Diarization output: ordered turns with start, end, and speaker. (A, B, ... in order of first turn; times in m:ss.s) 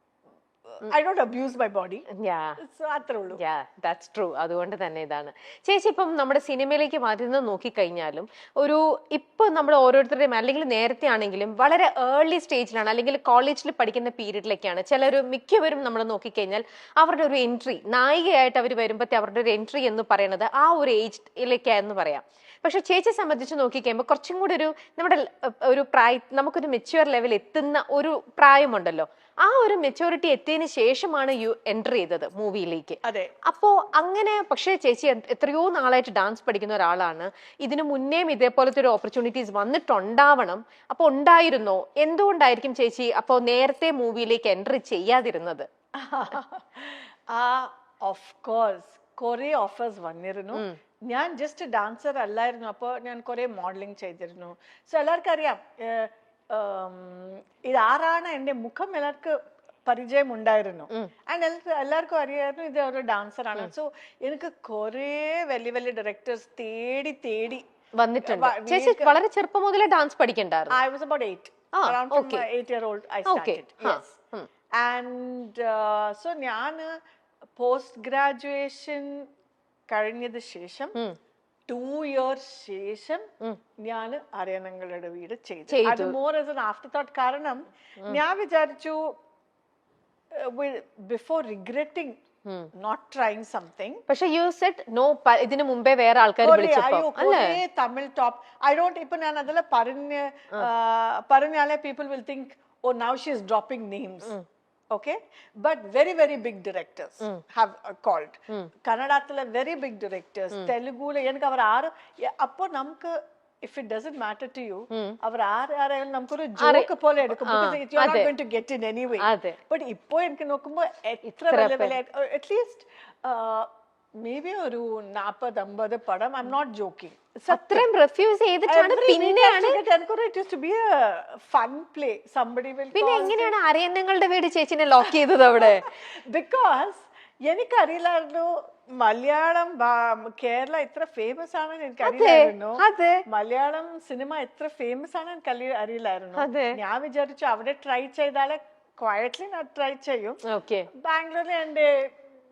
0:00.7-0:02.0 A
0:02.2-0:02.6 B
0:02.6-0:03.4 A
0:03.4-0:45.7 B
0:33.0-0:33.3 A
0:46.0-0:59.4 A
0:59.9-1:07.6 A
1:08.0-1:10.8 B
1:08.2-1:09.2 A
1:10.7-1:14.2 A
1:11.8-1:12.4 B
1:13.2-1:14.5 B
1:14.8-1:16.9 A
1:17.6-1:19.3 A
1:19.9-1:21.0 A
1:21.7-1:23.3 A
1:23.8-1:29.0 A
1:25.7-1:26.2 B
1:30.3-1:32.2 A
1:32.8-1:34.0 A
1:34.1-1:37.6 B
1:36.4-1:44.4 A
1:44.9-2:03.7 A
1:54.9-1:55.2 B
1:56.6-1:58.3 B
1:59.2-1:59.6 B
2:01.3-2:02.0 B
2:04.2-2:07.9 A
2:07.5-2:09.8 B
2:08.7-2:13.5 A
2:12.9-2:15.9 B
2:15.6-2:30.4 A
2:22.0-2:23.2 B
2:26.4-2:26.8 B
2:30.5-2:30.9 B
2:30.9-2:32.1 A